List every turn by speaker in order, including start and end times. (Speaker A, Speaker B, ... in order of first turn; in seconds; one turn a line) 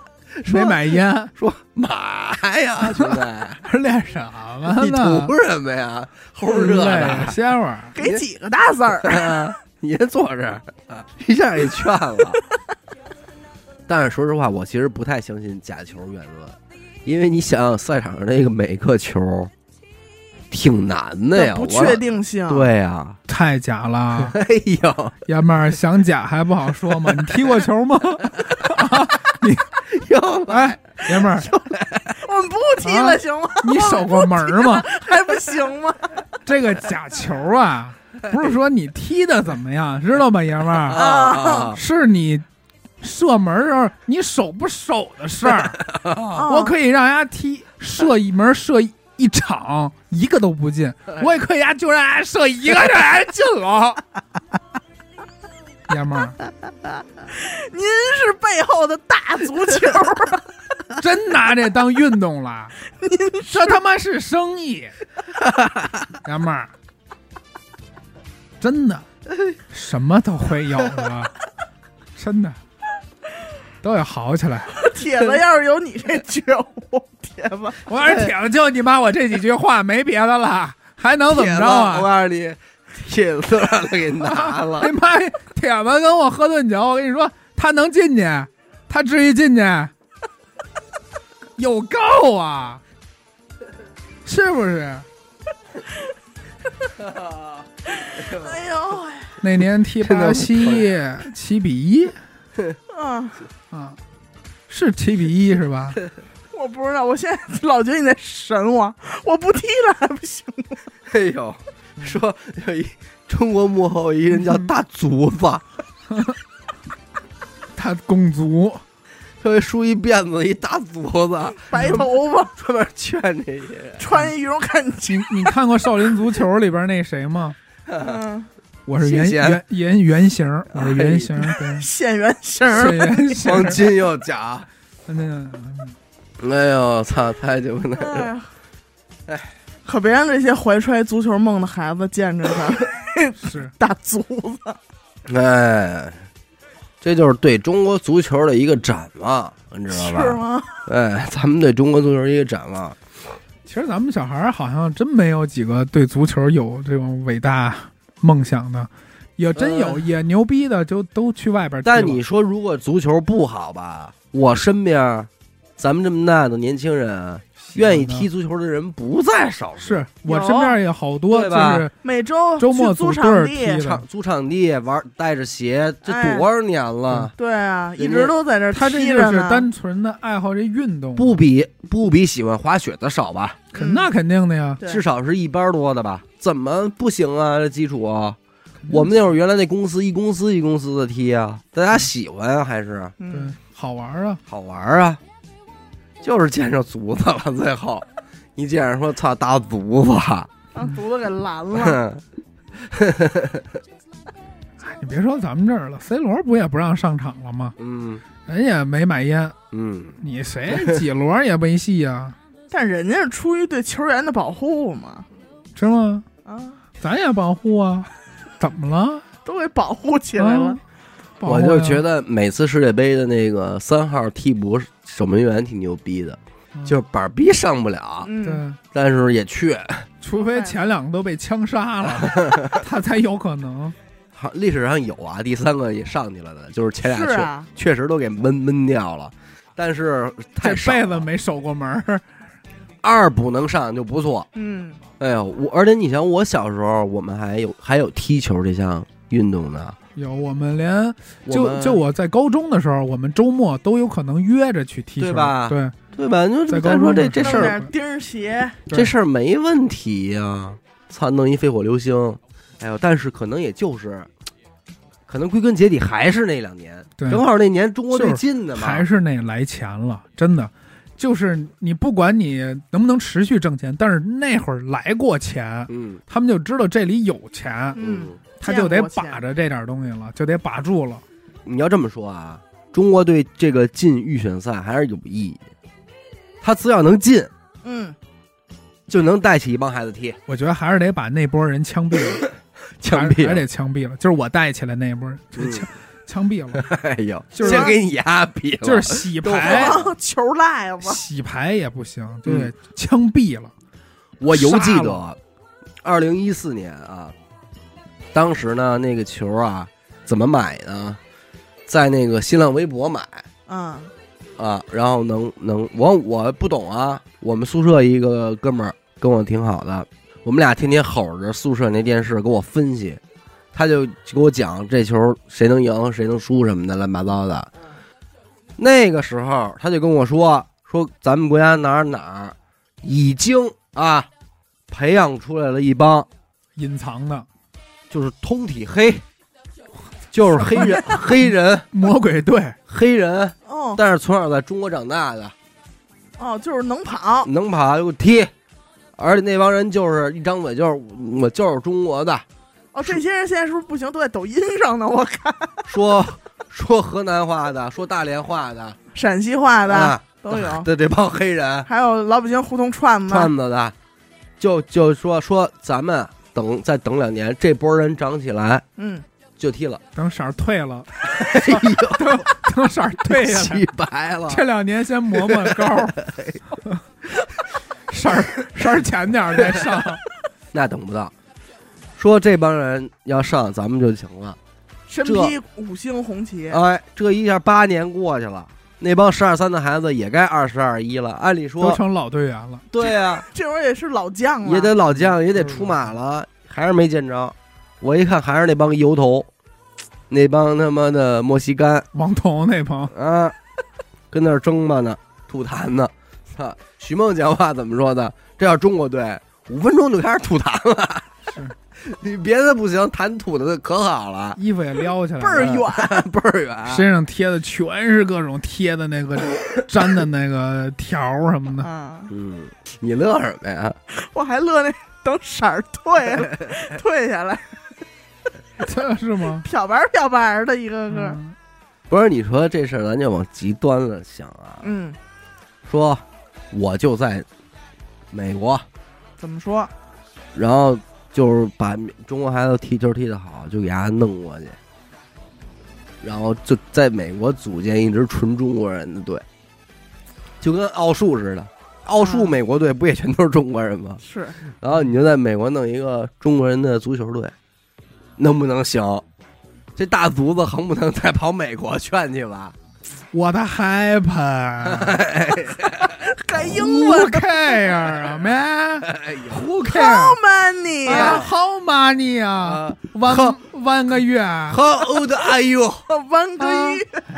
Speaker A: 0.4-3.6
Speaker B: 0.5-1.3
Speaker B: 2.8-5.3
Speaker A: 4.7-7.4
Speaker B: 6.5-7.9
Speaker C: 8.0-9.5
Speaker A: 9.0-12.4
Speaker A: 13.9-19.5
Speaker A: 20.5-23.2
Speaker C: 21.3-22.7
Speaker B: 23.3-24.4
Speaker A: 24.2-25.1
Speaker B: 25.3-29.7
Speaker A: 29.9-32.2
Speaker B: 30.5-31.5
Speaker C: 32.1-36.1
Speaker B: 32.8-34.9
Speaker B: 36.5-41.0
Speaker A: 40.9-41.8
Speaker C: 40.9-41.8
Speaker B: 41.7-42.5
Speaker B: 43.0-45.8
Speaker A: 45.8-46.5
Speaker C: 46.3-46.8
Speaker B: 46.4-54.0
Speaker B: 55.9-56.4
Speaker C: 57.3-60.5
Speaker B: 61.0-62.8
Speaker C: 62.9-63.8
Speaker B: 63.5-65.0
Speaker B: 66.2-66.7
Speaker B: 68.6-69.0
Speaker B: 69.7-71.3
Speaker B: 72.2-72.6
Speaker B: 73.8-74.8
Speaker C: 74.7-77.8
Speaker B: 77.9-82.1
Speaker A: 78.0-78.3
Speaker A: 81.3-84.9
Speaker B: 84.2-89.9
Speaker B: 91.6-92.8
Speaker B: 94.2-95.0
Speaker A: 97.0-97.3
Speaker C: 97.9-99.4
Speaker A: 98.2-98.5
Speaker B: 99.4-102.2
Speaker A: 100.0-100.9
Speaker C: 102.9-103.4
Speaker B: 103.7-104.0
Speaker B: 104.7-106.0
Speaker C: 106.5-110.9
Speaker A: 111.1-115.6
Speaker B: 114.4-114.7
Speaker B: 116.1-116.4
Speaker B: 117.8-118.8
Speaker A: 119.4-122.0
Speaker C: 121.7-122.5
Speaker B: 121.8-122.0
Speaker A: 122.6-124.0
Speaker C: 124.0-125.5
Speaker B: 125.1-127.6
Speaker A: 127.9-128.1
Speaker C: 128.0-128.5
Speaker B: 128.9-131.9
Speaker A: 129.0-129.6
Speaker A: 130.7-131.4
Speaker C: 131.6-133.4
Speaker B: 132.7-133.9
Speaker A: 133.4-134.7
Speaker B: 135.1-136.0
Speaker A: 136.4-138.3
Speaker C: 138.0-138.5
Speaker C: 139.8-144.8
Speaker B: 143.4-143.7
Speaker A: 145.3-146.2
Speaker A: 147.0-153.0
Speaker C: 149.9-150.8
Speaker B: 153.7-162.2
Speaker A: 159.6-160.1
Speaker A: 161.8-170.0
Speaker B: 167.6-168.3
Speaker B: 169.8-171.9
Speaker C: 170.2-170.8
Speaker A: 171.3-171.9
Speaker C: 172.0-173.8
Speaker B: 172.6-174.0
Speaker A: 173.8-177.3
Speaker C: 176.1-176.5
Speaker C: 177.4-179.7
Speaker A: 178.0-178.3
Speaker B: 178.7-181.4
Speaker A: 181.2-183.6
Speaker B: 183.7-184.8
Speaker C: 183.7-184.1
Speaker A: 184.8-188.4
Speaker B: 188.8-189.2
Speaker A: 188.9-193.2
Speaker C: 193.2-193.6
Speaker B: 193.3-194.4
Speaker A: 194.5-195.2
Speaker A: 196.2-200.5
Speaker C: 200.7-202.0
Speaker A: 201.8-202.2
Speaker A: 202.8-203.8
Speaker B: 204.8-207.8
Speaker A: 207.8-208.2
Speaker B: 208.5-209.6
Speaker A: 209.7-211.0
Speaker B: 210.2-212.4
Speaker C: 212.7-215.3
Speaker B: 215.8-216.2
Speaker C: 216.4-216.8
Speaker B: 217.0-218.1
Speaker B: 218.6-219.2
Speaker C: 219.4-220.8
Speaker B: 220.4-220.8
Speaker B: 221.4-222.0
Speaker A: 221.4-228.3
Speaker C: 228.2-228.6
Speaker B: 228.4-228.8
Speaker A: 228.9-230.1
Speaker B: 230.2-234.0
Speaker C: 230.4-230.8
Speaker A: 232.2-232.8
Speaker A: 234.4-241.3
Speaker C: 237.0-237.7
Speaker B: 240.6-242.2
Speaker A: 243.0-244.5
Speaker C: 244.6-245.0
Speaker A: 245.2-250.0
Speaker B: 250.2-256.0
Speaker A: 251.5-252.0
Speaker A: 255.2-257.8
Speaker B: 256.7-257.9
Speaker C: 257.4-258.8
Speaker A: 258.9-264.3
Speaker A: 265.3-269.1
Speaker B: 267.2-267.4
Speaker B: 268.1-278.0
Speaker A: 275.9-276.2
Speaker C: 277.9-279.4
Speaker A: 278.0-278.4
Speaker B: 278.6-281.2
Speaker A: 281.6-285.6
Speaker A: 286.6-287.5
Speaker C: 287.8-288.2
Speaker A: 289.1-290.4
Speaker B: 290.5-292.5
Speaker A: 293.0-293.7
Speaker B: 293.1-296.9
Speaker A: 295.6-295.9
Speaker A: 296.7-300.1
Speaker B: 297.5-298.0
Speaker C: 297.6-297.9
Speaker B: 298.8-300.0
Speaker C: 299.5-301.2
Speaker B: 301.0-303.7
Speaker A: 302.4-302.7
Speaker A: 304.4-305.4
Speaker B: 304.5-305.2
Speaker A: 306.0-307.4
Speaker A: 308.3-311.2
Speaker A: 311.9-313.5
Speaker C: 313.7-314.1
Speaker A: 314.6-323.2
Speaker A: 323.7-327.7
Speaker A: 328.8-334.3
Speaker A: 334.9-336.3
Speaker B: 336.8-337.5
Speaker A: 338.1-339.2
Speaker A: 340.3-341.9
Speaker B: 340.7-342.8
Speaker A: 342.9-345.6
Speaker C: 343.7-344.0
Speaker C: 346.4-347.5
Speaker A: 347.4-348.5
Speaker A: 349.2-352.4
Speaker C: 352.9-355.9
Speaker A: 355.9-359.0
Speaker C: 359.1-360.9
Speaker A: 359.9-361.9
Speaker C: 361.9-363.5
Speaker A: 363.3-363.9
Speaker A: 364.6-368.8
Speaker C: 369.0-369.2
Speaker A: 369.6-370.0
Speaker B: 370.1-373.9
Speaker A: 371.3-372.5
Speaker A: 373.2-374.6
Speaker B: 374.5-376.2
Speaker A: 375.3-376.6
Speaker B: 378.1-380.2
Speaker A: 380.7-381.3
Speaker A: 382.2-384.6
Speaker C: 385.1-386.8
Speaker A: 385.2-385.6
Speaker A: 386.7-392.0
Speaker B: 391.8-392.8
Speaker A: 392.9-393.5
Speaker C: 393.0-394.9
Speaker A: 394.6-399.5
Speaker B: 395.3-396.0
Speaker A: 400.3-402.1
Speaker B: 402.1-403.1
Speaker A: 403.1-403.6
Speaker A: 404.3-411.4
Speaker B: 411.5-411.7
Speaker A: 412.0-414.6
Speaker B: 414.6-415.8
Speaker C: 415.4-416.3
Speaker A: 415.6-417.1
Speaker B: 416.9-421.9
Speaker C: 421.8-422.3
Speaker A: 422.3-424.0
Speaker C: 424.1-427.8
Speaker B: 428.8-429.7
Speaker C: 429.6-431.4
Speaker B: 431.1-431.6
Speaker A: 432.1-434.8
Speaker C: 434.8-435.2
Speaker A: 435.9-437.5
Speaker A: 438.3-438.9
Speaker C: 439.4-439.9
Speaker A: 440.5-444.8
Speaker A: 446.2-449.4
Speaker A: 450.6-454.2
Speaker C: 452.2-452.6
Speaker C: 454.2-454.6
Speaker A: 454.8-457.6
Speaker A: 458.4-459.2
Speaker A: 460.0-462.8
Speaker B: 463.3-465.2
Speaker A: 464.8-466.2
Speaker C: 465.8-467.9
Speaker B: 466.7-470.4
Speaker A: 469.0-469.7
Speaker C: 469.8-471.5
Speaker B: 471.1-474.8
Speaker A: 471.1-471.5
Speaker A: 472.6-473.6
Speaker A: 474.7-476.1
Speaker C: 476.1-477.2
Speaker B: 476.6-477.0